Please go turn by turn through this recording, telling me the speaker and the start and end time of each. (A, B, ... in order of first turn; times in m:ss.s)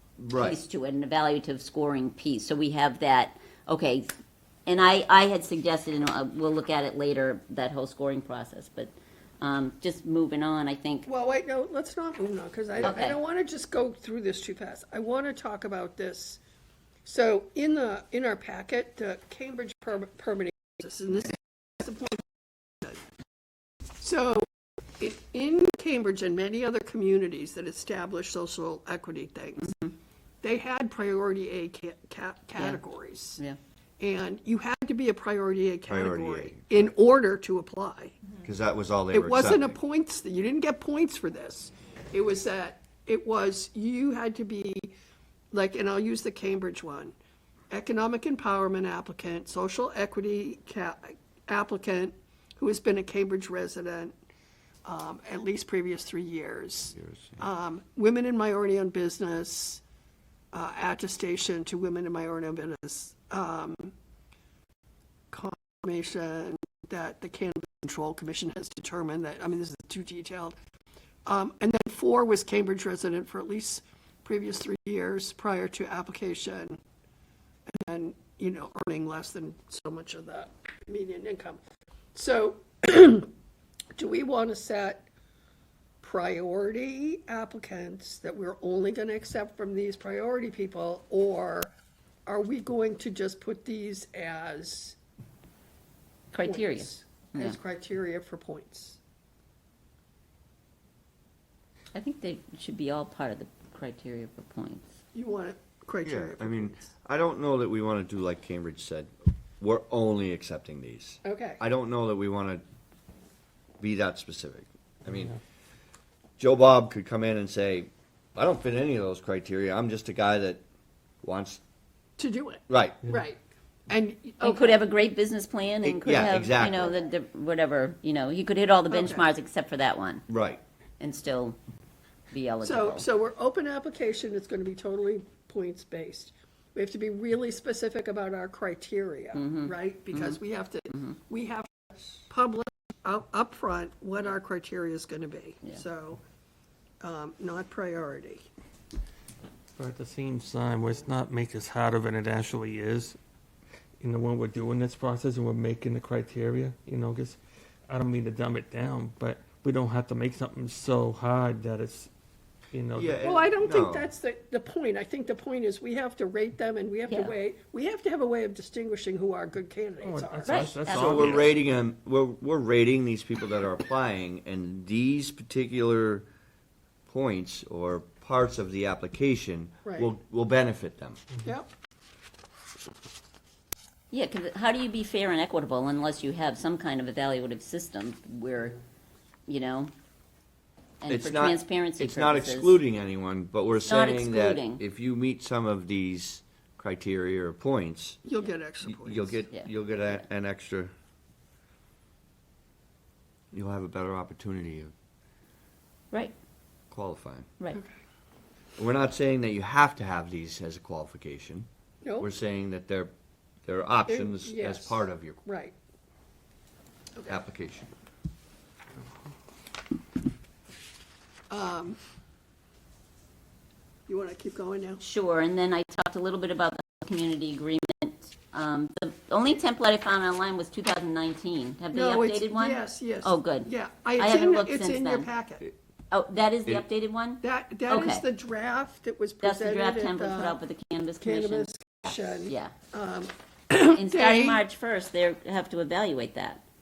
0:00.2-0:00.6 A
0:00.3-0:04.1 B
0:04.7-0:11.1 B
0:11.1-0:16.4 C
0:12.8-0:13.2 B
0:17.0-0:23.0 C
0:24.0-0:24.5 C
0:25.0-0:29.8 C
0:30.4-0:33.4 C
0:34.0-0:38.2 C
0:35.9-0:36.7 A
0:38.4-0:39.8 A
0:39.1-0:44.9 C
0:45.5-0:47.1 C
0:47.7-0:54.1 C
0:54.8-0:59.8 C
1:00.5-1:03.9 C
1:05.3-1:10.6 C
1:11.3-1:16.8 C
1:17.7-1:21.6 C
1:22.1-1:23.3 C
1:24.0-1:25.1 C
1:26.0-1:31.7 C
1:32.3-1:35.0 C
1:36.3-1:37.6 B
1:36.4-1:39.0 C
1:41.9-1:44.8 B
1:45.1-1:46.9 C
1:46.0-1:52.6 A
1:51.2-1:51.6 C
1:53.8-1:55.4 A
1:56.4-2:00.6 A
2:01.2-2:01.6 A
2:02.2-2:04.8 C
2:02.7-2:03.0 A
2:04.4-2:10.2 B
2:05.8-2:07.0 A
2:08.9-2:09.3 C
2:10.3-2:10.6 A
2:11.0-2:11.6 B
2:12.3-2:13.1 B
2:12.6-2:26.2 C
2:19.3-2:20.4 B
2:27.0-2:28.5 C
2:29.8-2:33.2 D
2:34.0-2:42.1 D
2:42.7-2:43.2 D
2:42.9-2:44.1 A
2:43.2-2:50.8 C
2:47.1-2:47.3 B
2:50.0-2:51.6 D
2:50.5-2:51.4 B
2:50.9-2:56.3 A
2:57.1-3:01.2 A
2:59.8-3:00.1 C
3:01.4-3:01.7 C
3:04.1-3:08.8 B
3:09.5-3:09.9 B
3:11.0-3:12.8 B
3:11.1-3:18.2 A
3:13.9-3:14.8 B
3:18.2-3:19.4 C
3:18.9-3:20.9 A
3:19.5-3:20.2 B
3:23.5-3:24.9 A
3:26.9-3:27.5 A
3:28.8-3:31.7 A
3:32.0-3:32.3 C
3:32.2-3:33.1 A
3:33.7-3:35.4 A
3:34.1-3:35.8 C
3:37.2-3:37.4 C
3:37.3-3:37.9 A
3:41.5-3:42.0 C
3:44.1-3:45.0 C
3:45.0-3:55.3 B
3:51.9-3:55.6 C
3:56.1-3:58.2 B
3:57.4-4:00.6 C
3:59.4-4:01.7 B
4:01.2-4:04.6 C
4:02.5-4:02.7 B
4:03.9-4:06.6 B